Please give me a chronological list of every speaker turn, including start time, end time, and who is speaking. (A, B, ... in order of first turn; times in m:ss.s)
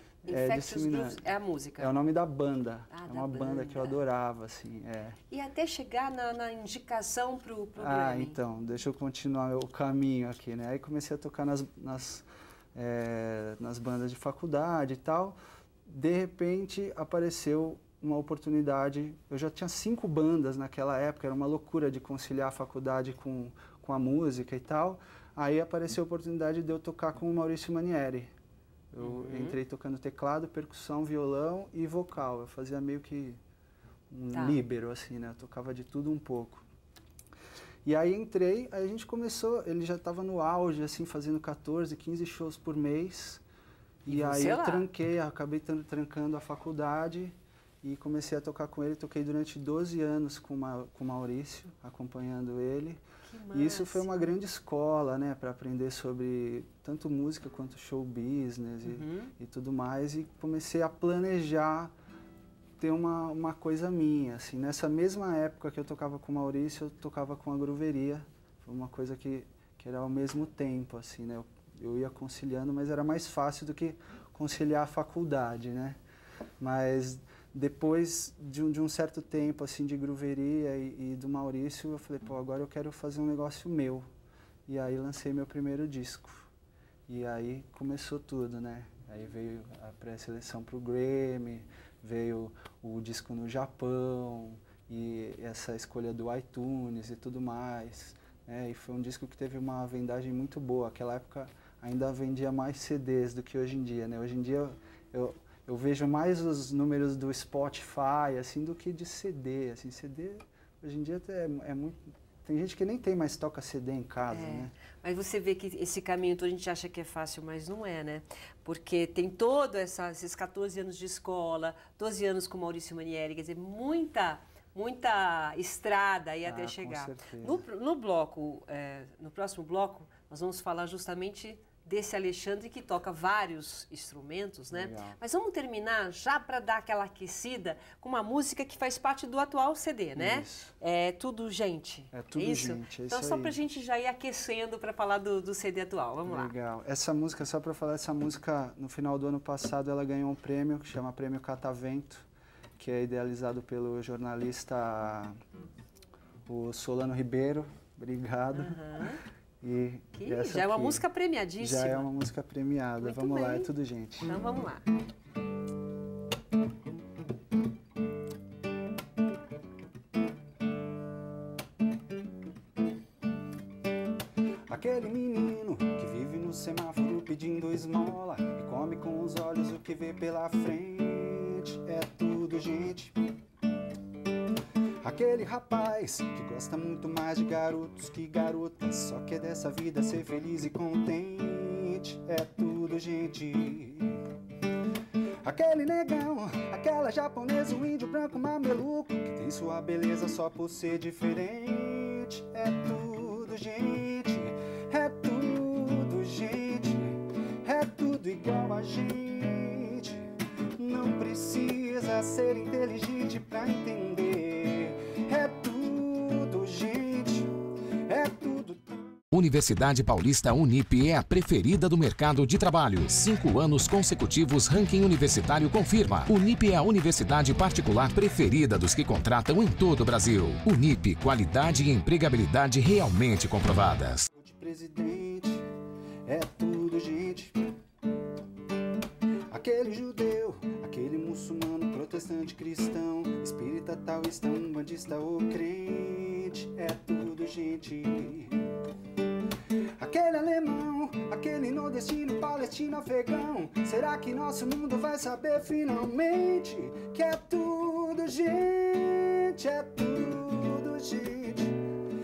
0:00.2-0:01.9 A
0:00.2-0:01.2 B
0:01.8-0:05.2 B
0:02.9-0:04.0 A
0:05.3-0:08.4 A
0:07.8-0:28.3 B
0:28.9-0:33.4 B
0:29.0-0:29.6 A
0:34.1-0:36.6 B
0:34.3-0:34.6 A
0:37.8-0:43.4 B
0:44.0-1:01.9 B
0:44.1-0:44.9 A
0:53.2-0:54.3 A
0:58.8-0:59.3 A
1:02.8-1:16.0 B
1:16.6-1:24.0 B
1:24.7-1:26.5 B
1:27.1-1:54.7 B
1:54.3-2:26.5 A
2:06.4-2:07.6 B
2:14.7-2:15.2 B
2:20.2-2:20.7 B
2:22.1-2:23.6 B
2:26.2-2:35.4 B
2:36.4-2:39.0 B
2:38.5-2:39.2 A
2:39.6-2:41.0 B
2:40.1-2:42.1 A
2:41.6-2:44.4 B
2:43.0-2:43.7 A
2:44.3-2:44.8 A
2:54.7-3:03.2 B
3:05.0-3:14.3 B
3:15.4-3:39.2 B
3:39.3-3:54.3 C
3:54.3-3:55.7 B
3:56.2-3:57.7 B
3:59.5-4:08.7 B
4:10.0-4:21.8 B